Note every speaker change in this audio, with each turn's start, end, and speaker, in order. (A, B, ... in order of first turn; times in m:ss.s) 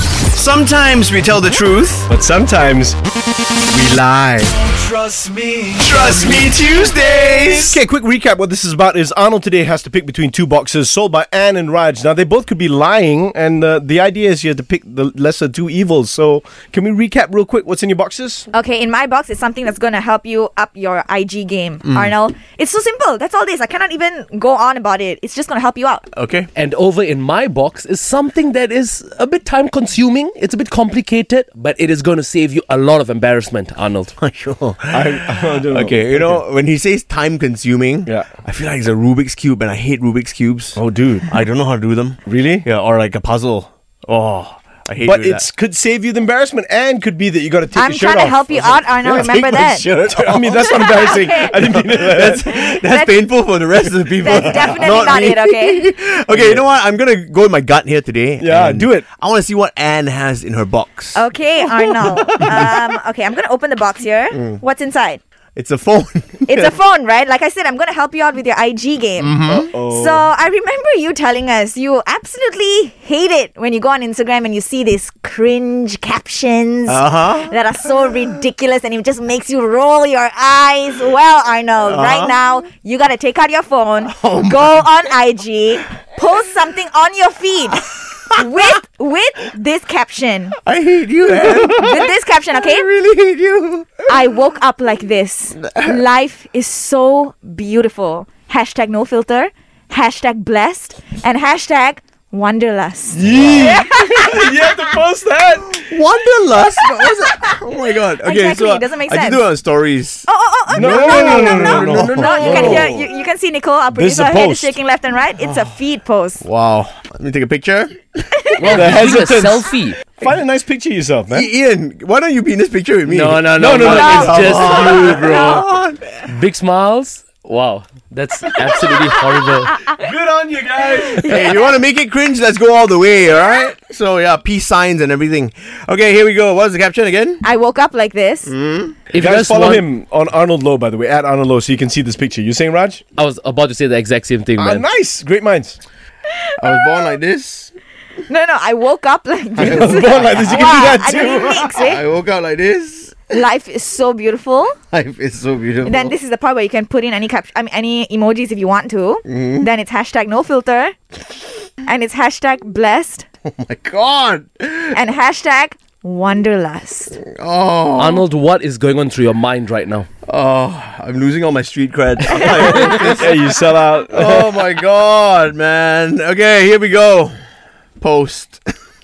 0:00.3-0:02.1 A
0:02.1-0:03.0 B
0:03.7-0:04.6 B
0:05.8-0:07.8 A
0:07.6-0:18.5 B
0:18.5-0:26.0 C
0:21.8-0:22.1 A
0:26.1-0:26.5 A
0:26.5-0:34.1 D
0:34.2-0:40.8 A
0:34.9-0:36.4 B
0:40.7-0:41.3 B
0:41.3-0:45.4 A
0:42.2-0:42.7 B
0:45.0-0:48.6 B
0:47.7-0:49.9 C
0:48.6-1:01.2 A
0:50.1-0:52.5 B
0:50.6-0:51.5 C
0:52.4-0:53.4 C
0:54.2-0:55.9 C
0:56.3-0:56.7 B
0:58.4-0:59.0 B
1:01.1-1:05.2 C
1:04.3-1:04.6 A
1:05.6-1:06.8 A
1:06.5-1:30.6 C
1:09.2-1:09.7 A
1:09.5-1:10.2 B
1:16.9-1:17.6 A
1:21.8-1:22.3 A
1:24.0-1:24.9 A
1:30.6-1:34.1 A
1:31.6-1:32.9 C
1:34.1-1:44.7 C
1:43.1-1:45.9 B
1:43.2-1:43.8 A
1:45.8-1:53.0 A
1:48.1-1:49.4 C
1:50.3-1:56.4 C
1:50.7-1:53.0 B
1:53.9-1:54.7 B
1:56.4-1:58.2 A
1:58.4-1:58.9 C
1:58.6-2:01.5 B
1:58.7-2:00.0 D
2:01.3-2:06.3 A
2:03.1-2:05.6 D
2:03.6-2:05.4 B
2:06.3-2:09.7 D
2:09.9-2:11.5 B
2:11.2-2:17.4 A
2:17.4-2:18.5 C
2:18.4-2:19.1 A
2:19.1-2:23.0 B
2:19.2-2:19.8 D
2:23.2-2:24.8 D
2:24.6-2:25.8 B
2:26.6-2:27.7 A
2:28.3-2:32.0 C
2:29.5-2:30.9 A
2:29.6-2:31.8 B
2:31.7-2:33.2 A
2:33.3-2:34.8 C
2:34.9-2:36.2 A
2:35.8-2:40.9 C
2:39.3-2:39.7 A
2:41.8-2:43.2 C
2:43.4-2:45.0 A
2:44.9-2:47.2 C
2:47.2-2:48.3 A
2:48.0-2:50.1 D
2:50.3-2:57.3 A
2:52.3-2:53.1 C
2:52.5-2:54.7 B
2:58.0-2:58.6 A